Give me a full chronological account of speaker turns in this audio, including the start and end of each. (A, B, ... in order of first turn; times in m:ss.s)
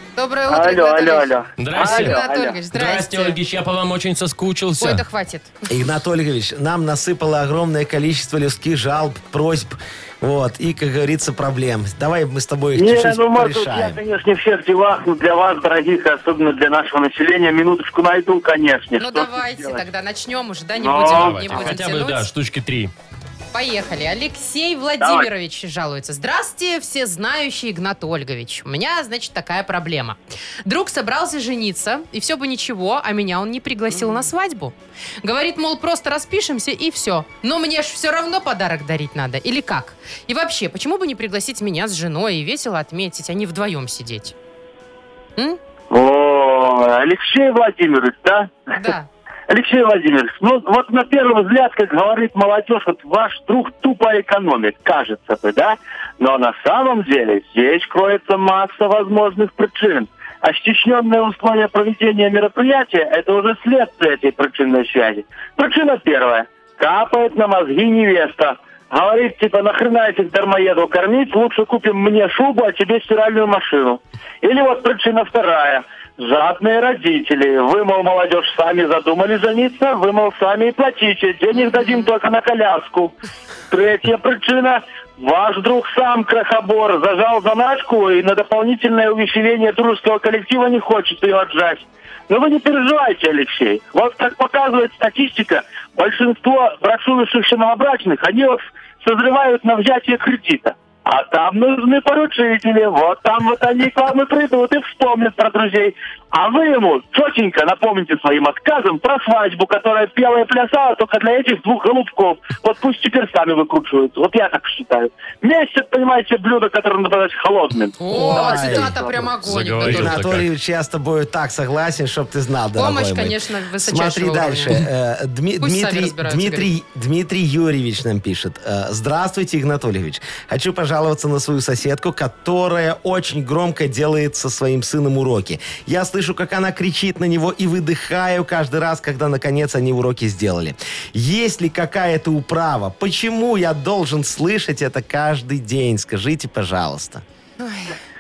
0:00.2-0:03.4 A
0:00.5-0:02.6 B
0:01.6-0:02.2 C
0:02.7-0:05.0 C
0:04.8-0:05.6 A
0:05.7-0:14.0 D
0:12.7-0:19.8 B
0:19.0-0:22.2 A
0:20.8-0:21.6 B
0:21.0-0:22.9 C
0:23.5-0:44.3 A
0:25.0-0:25.3 B
0:45.9-0:48.6 B
0:48.7-0:49.1 A
0:49.5-1:23.1 B
1:23.7-1:59.2 B
1:58.0-2:00.2 A
1:58.1-1:59.0 D
1:59.4-2:00.4 C
1:59.8-2:27.2 D
2:02.8-2:04.8 A
2:05.6-2:06.7 A
2:27.6-2:27.9 A